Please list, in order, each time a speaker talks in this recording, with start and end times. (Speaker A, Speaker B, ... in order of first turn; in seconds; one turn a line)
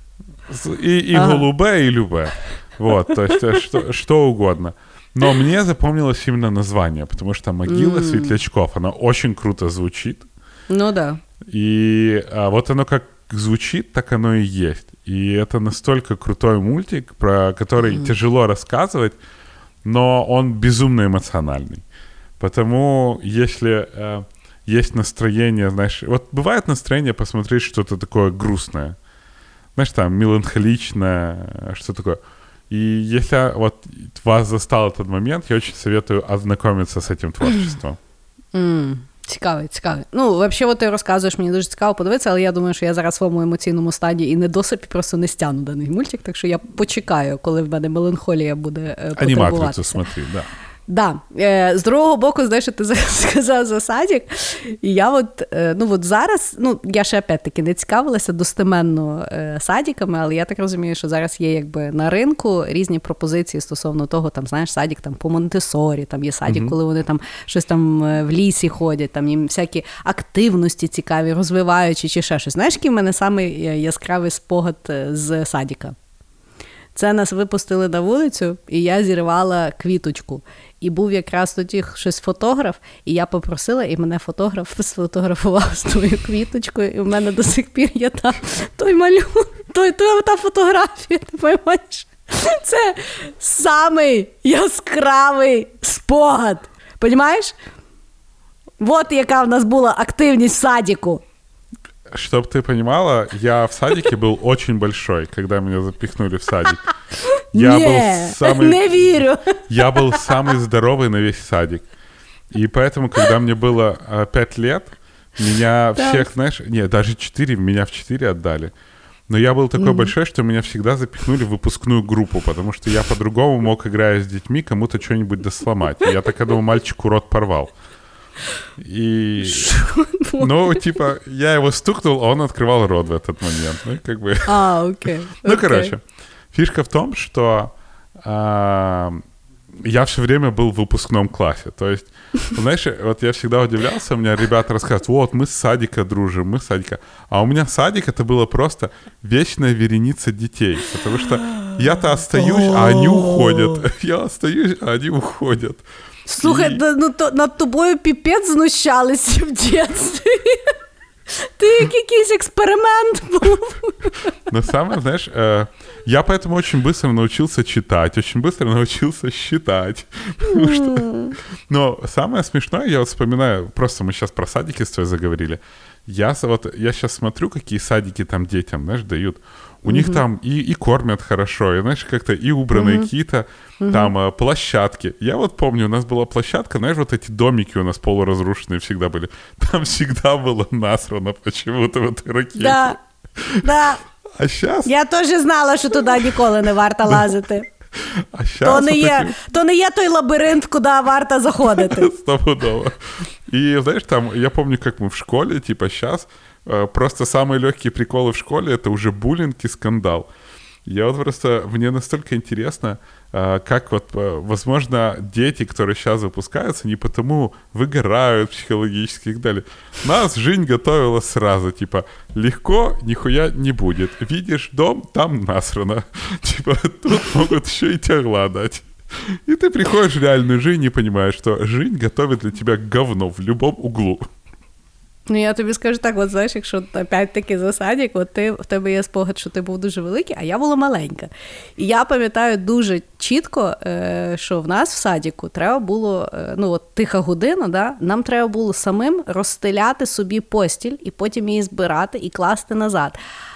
Speaker A: 0.5-10.3
Speaker B: 1.1-1.4
Speaker B: 7.7-8.4
Speaker B: 10.7-11.2
Speaker A: 11.5-19.2
Speaker B: 17.8-18.1
Speaker A: 19.8-21.8
Speaker A: 22.4-29.0
Speaker A: 29.8-38.0
Speaker B: 38.5-50.0
Speaker A: 49.2-50.5
Speaker B: 50.9-75.9
Speaker A: 66.5-66.7
Speaker B: 76.9-97.5
Speaker B: 98.8-101.2
Speaker A: 102.1-106.8
Speaker B: 107.5-110.2
Speaker A: 107.5-109.0
Speaker A: 109.7-111.8
Speaker A: 112.5-118.7
Speaker B: 116.0-116.3
Speaker A: 119.3-127.7
Speaker B: 119.8-120.1
Speaker A: 128.8-129.7
Speaker B: 129.4-131.0
Speaker A: 130.4-134.6
Speaker B: 134.5-135.9
Speaker A: 135.4-139.2
Speaker A: 139.7-155.8
Speaker B: 152.4-153.8
Speaker B: 156.3-160.7
Speaker A: 156.4-156.8
Speaker B: 161.4-164.2
Speaker A: 164.5-192.8
Speaker B: 170.5-171.3
Speaker B: 179.9-180.2
Speaker B: 182.7-183.1
Speaker B: 183.8-184.1
Speaker B: 192.6-193.0
Speaker A: 193.4-193.6
Speaker B: 193.6-194.0
Speaker A: 194.4-194.9
Speaker B: 194.8-197.7
Speaker A: 197.1-197.3
Speaker A: 197.9-199.3
Speaker B: 198.6-202.1
Speaker A: 201.7-210.3
Speaker A: 210.8-234.2
Speaker B: 235.3-253.2